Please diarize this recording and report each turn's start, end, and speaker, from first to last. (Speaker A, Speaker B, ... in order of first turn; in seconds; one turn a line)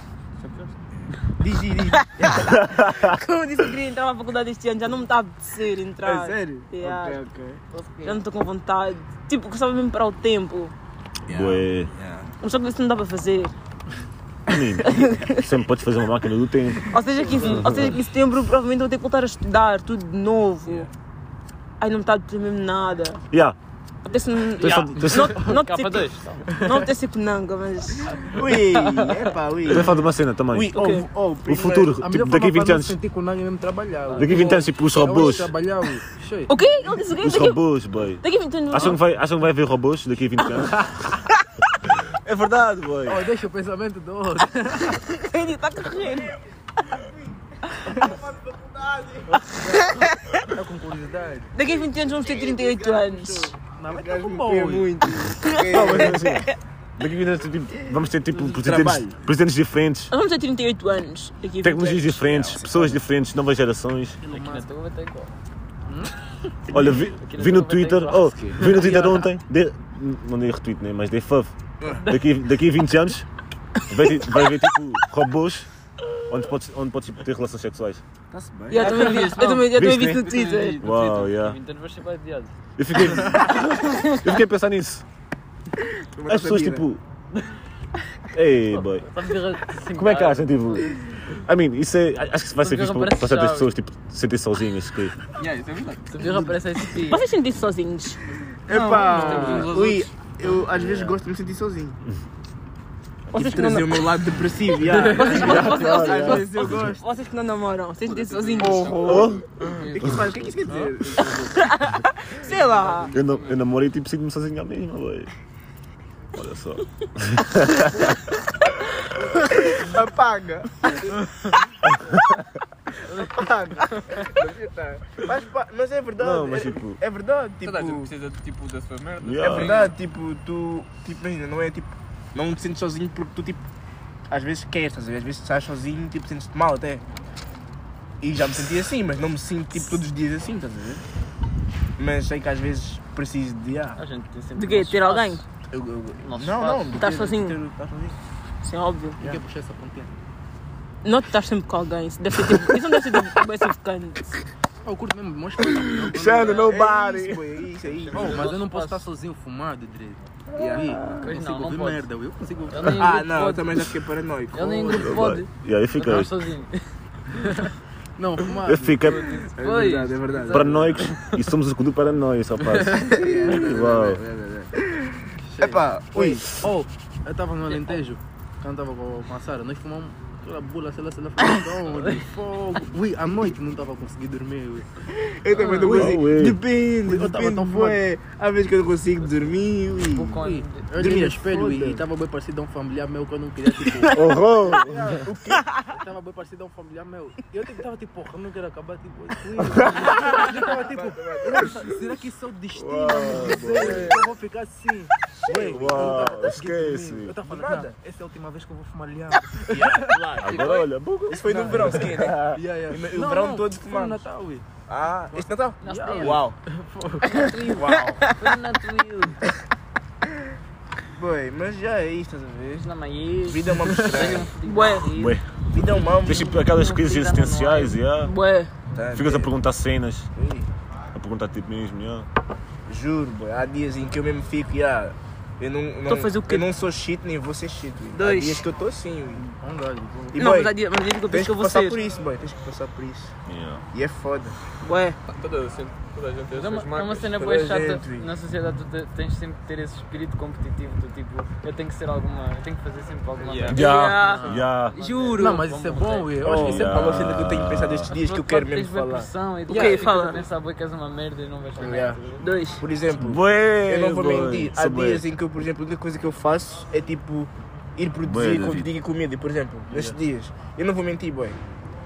Speaker A: 0.4-0.7
Speaker B: 0.9-2.4
Speaker C: 2.1-7.2
Speaker B: 6.0-7.6
Speaker D: 7.7-8.2
Speaker C: 8.0-10.7
Speaker B: 11.3-12.3
Speaker E: 11.3-11.9
Speaker C: 12.4-13.5
Speaker E: 14.5-18.0
Speaker C: 14.8-15.5
Speaker C: 16.8-20.9
Speaker B: 20.6-20.9
Speaker C: 21.8-23.2
Speaker E: 23.3-23.6
Speaker C: 24.0-28.4
Speaker E: 24.6-25.6
Speaker D: 25.1-26.6
Speaker D: 28.1-29.9
Speaker B: 28.2-32.0
Speaker E: 29.7-30.9
Speaker C: 30.7-31.1
Speaker E: 31.4-33.0
Speaker F: 32.0-36.5
Speaker D: 34.0-34.7
Speaker E: 34.2-35.5
Speaker C: 36.5-37.6
Speaker E: 37.2-41.2
Speaker C: 38.2-39.0
Speaker E: 42.1-43.2
Speaker F: 43.0-45.1
Speaker C: 45.1-46.4
Speaker B: 47.8-49.4
Speaker F: 49.3-51.5
Speaker C: 51.5-53.5
Speaker B: 51.6-56.3
Speaker F: 53.6-55.0
Speaker C: 55.4-56.5
Speaker E: 55.6-60.1
Speaker B: 57.9-59.2
Speaker C: 60.1-62.5
Speaker E: 61.6-64.2
Speaker B: 62.3-63.0
Speaker F: 64.2-64.7
Speaker D: 64.3-65.3
Speaker F: 65.9-66.1
Speaker E: 66.7-71.5
Speaker D: 66.8-69.3
Speaker B: 71.8-72.0
Speaker D: 71.9-72.4
Speaker E: 72.0-73.2
Speaker E: 73.9-75.7
Speaker E: 76.3-78.0
Speaker B: 78.3-79.0
Speaker C: 78.7-80.8
Speaker A: 78.7-81.5
Speaker E: 79.7-80.2
Speaker E: 80.8-81.6
Speaker D: 81.3-82.5
Speaker E: 82.8-85.0
Speaker B: 86.1-86.9
Speaker E: 86.3-87.0
Speaker E: 88.3-89.1
Speaker D: 88.7-90.5
Speaker E: 89.9-95.2
Speaker D: 92.6-93.7
Speaker A: 95.3-96.1
Speaker D: 96.1-97.2
Speaker B: 96.2-96.6
Speaker C: 97.1-98.2
Speaker B: 98.7-102.0
Speaker A: 98.7-100.1
Speaker D: 99.2-99.5
Speaker C: 99.3-99.6
Speaker D: 100.7-101.2
Speaker C: 103.3-104.2
Speaker B: 103.3-107.0
Speaker D: 104.8-105.9
Speaker C: 104.9-109.2
Speaker E: 105.2-106.8
Speaker A: 108.0-110.6
Speaker B: 108.6-111.7
Speaker E: 109.0-109.5
Speaker C: 111.2-113.1
Speaker A: 112.4-113.6
Speaker E: 113.1-115.3
Speaker E: 116.3-118.1
Speaker B: 119.4-121.1
Speaker E: 121.9-122.2
Speaker B: 123.0-128.1
Speaker E: 126.2-127.0
Speaker A: 127.6-129.9
Speaker E: 129.2-129.8
Speaker B: 129.4-133.6
Speaker B: 134.3-137.0
Speaker B: 138.2-141.0
Speaker B: 142.0-144.0
Speaker D: 143.9-145.4
Speaker C: 144.5-145.4
Speaker B: 145.7-148.2
Speaker D: 146.2-147.0
Speaker C: 147.0-147.6
Speaker C: 148.6-149.2
Speaker F: 149.2-150.1
Speaker C: 151.0-154.3
Speaker F: 154.8-156.7
Speaker B: 155.7-158.5
Speaker D: 156.2-157.2
Speaker D: 157.8-159.1
Speaker F: 158.1-163.0
Speaker B: 160.5-161.2
Speaker D: 161.2-162.1
Speaker D: 162.7-163.8
Speaker B: 162.9-165.1
Speaker D: 164.5-167.7
Speaker F: 164.6-165.2
Speaker E: 164.9-166.3
Speaker F: 167.4-169.2
Speaker E: 168.6-169.2
Speaker D: 169.0-171.4
Speaker B: 169.5-171.1
Speaker E: 170.5-174.2
Speaker D: 172.7-173.0
Speaker B: 173.0-176.5
Speaker F: 175.5-184.9
Speaker B: 185.1-190.4
Speaker D: 185.5-186.1
Speaker E: 185.8-186.6
Speaker F: 187.0-188.0
Speaker D: 190.1-190.9
Speaker F: 190.4-210.1
Speaker B: 190.9-192.0
Speaker E: 194.1-195.3
Speaker B: 195.2-195.7
Speaker B: 199.8-202.0
Speaker E: 202.7-204.2
Speaker B: 203.3-204.3
Speaker E: 205.6-207.4
Speaker B: 207.4-208.0
Speaker B: 209.7-210.7
Speaker D: 210.0-210.8
Speaker E: 210.4-212.6
Speaker B: 211.3-214.3
Speaker F: 211.4-214.6
Speaker B: 214.9-216.6
Speaker D: 215.8-216.4
Speaker F: 215.8-217.6
Speaker D: 217.2-219.4
Speaker B: 217.7-218.3
Speaker B: 221.1-222.9
Speaker D: 222.7-225.4
Speaker B: 223.4-224.5
Speaker F: 223.8-224.3
Speaker C: 224.6-225.2
Speaker E: 225.2-225.4
Speaker B: 225.7-226.6
Speaker D: 226.1-228.0
Speaker E: 226.2-228.3
Speaker C: 228.2-228.7
Speaker B: 228.9-229.5
Speaker E: 229.1-230.3
Speaker B: 230.3-230.7
Speaker E: 231.1-232.3
Speaker B: 232.9-239.5
Speaker C: 236.1-236.7
Speaker C: 238.1-238.7
Speaker F: 239.4-240.4
Speaker B: 240.3-240.7
Speaker C: 240.3-242.0
Speaker B: 241.3-243.3
Speaker E: 243.4-243.8
Speaker B: 243.9-244.6
Speaker C: 244.8-245.2
Speaker A: 245.3-247.3
Speaker D: 246.5-256.5
Speaker B: 247.3-248.3
Speaker A: 253.4-253.8
Speaker C: 253.7-255.6
Speaker E: 253.7-254.9
Speaker F: 255.3-257.2
Speaker B: 256.4-259.3
Speaker E: 256.5-258.1
Speaker D: 258.1-262.5
Speaker C: 259.7-260.4
Speaker B: 261.8-262.2
Speaker C: 262.4-262.8
Speaker B: 262.8-271.6
Speaker E: 263.2-265.2
Speaker E: 268.2-268.9
Speaker F: 269.9-270.2